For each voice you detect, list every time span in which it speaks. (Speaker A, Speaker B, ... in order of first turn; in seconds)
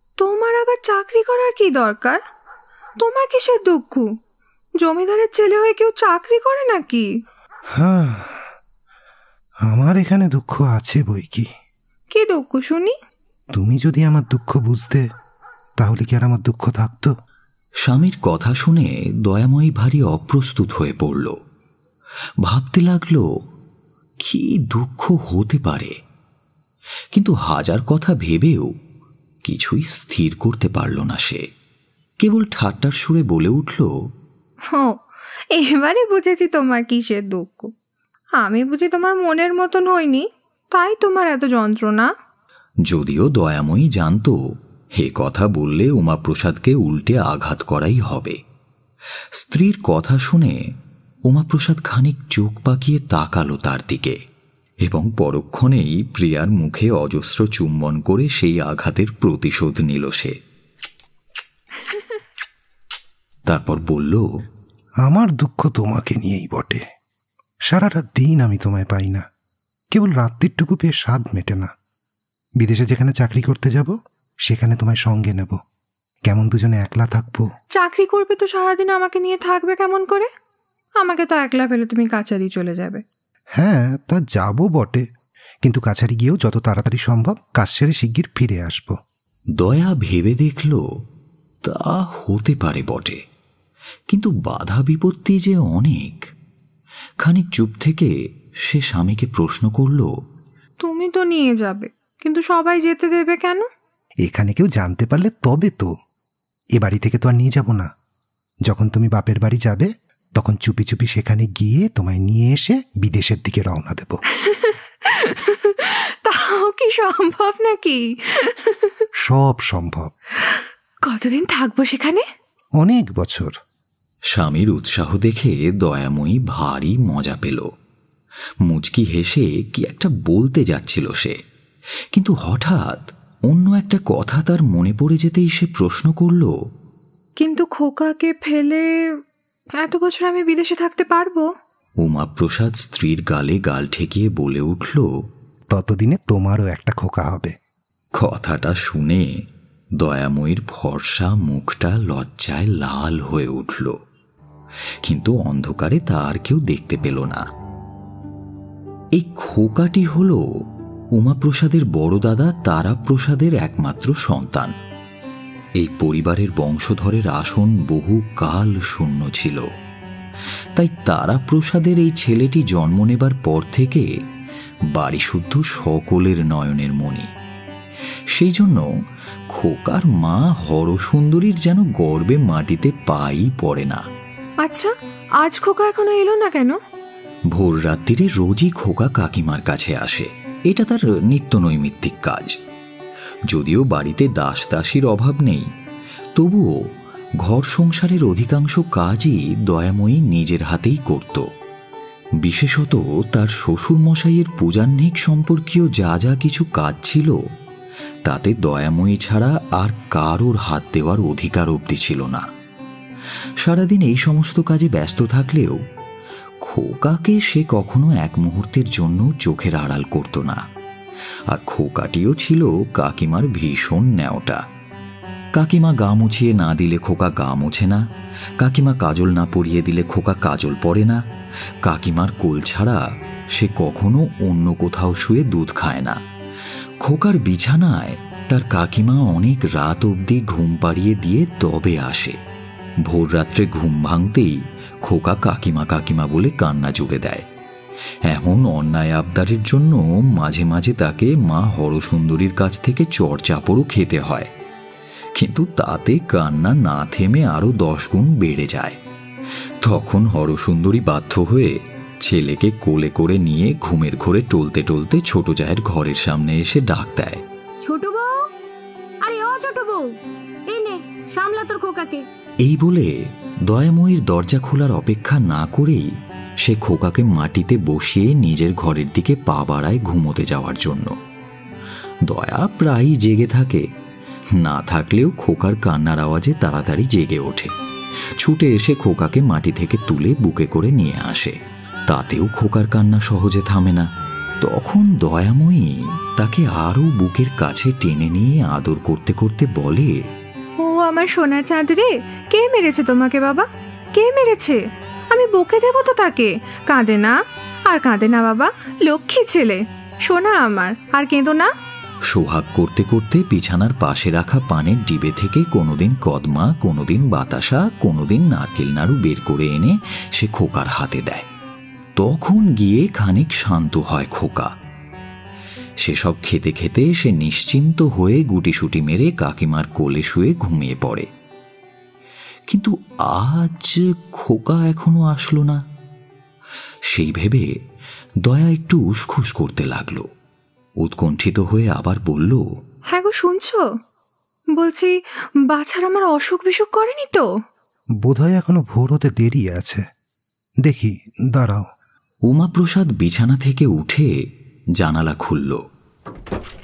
Speaker A: 0.2-2.2, 3.0-4.1, 4.8-7.1, 12.1-12.9, 34.7-35.0, 35.5-37.7, 38.4-42.1, 77.7-80.3, 81.0-83.0, 100.8-103.7, 114.3-119.0, 120.5-122.2, 137.4-139.0, 139.8-141.4, 184.6-186.8, 300.8-304.8, 305.3-307.3, 307.9-311.7, 343.1-343.8, 344.8-345.1, 345.7-347.4
Speaker B: 7.7-8.4, 9.7-11.5, 13.5-15.1, 15.8-17.1, 65.0-66.8, 67.7-69.2, 69.9-71.7, 72.6-75.6, 76.2-77.5, 83.6-85.0, 85.6-89.0, 104.2-105.9, 106.8-107.9, 108.7-114.2, 119.2-120.1, 122.8-123.5, 145.7-147.5, 348.2-350.0, 350.8-351.9
Speaker C: 17.8-21.4, 22.4-23.3, 24.2-25.9, 27.1-28.7, 29.4-31.4, 32.2-33.9, 42.9-44.4, 45.0-48.4, 49.4-50.6, 51.3-54.2, 54.8-60.4, 63.5-64.3, 89.6-90.8, 91.6-93.2, 94.1-96.3, 97.2-100.1, 124.3-127.7, 128.7-131.3, 132.1-136.5, 142.0-145.2, 148.2-149.4, 150.0-154.0, 155.0-157.4, 159.1-160.4, 161.1-164.7, 165.8-169.7, 170.8-174.1, 174.9-177.3, 178.3-178.9, 179.5-184.0, 187.5-192.6, 193.5-195.7, 196.4-196.8, 197.4-201.4, 202.4-207.4, 208.2-212.4, 213.6-215.8, 216.6-220.6, 221.5-224.6, 225.5-228.0, 228.6-231.2, 231.8-236.2, 237.0-242.4, 243.1-247.4, 248.2-254.5, 255.3-259.0, 259.8-267.4, 272.6-276.1, 276.6-281.1, 282.3-283.9, 284.5-287.7, 288.4-291.6, 292.1-294.1, 294.6-300.2, 312.3-321.4, 322.2-324.7, 326.0-331.3, 332.7-335.8, 337.1-337.7, 338.4-340.3, 341.0-342.6, 352.5-354.3, 355.0-355.8
Speaker D: 267.8-268.5, 269.2-270.1, 270.7-272.2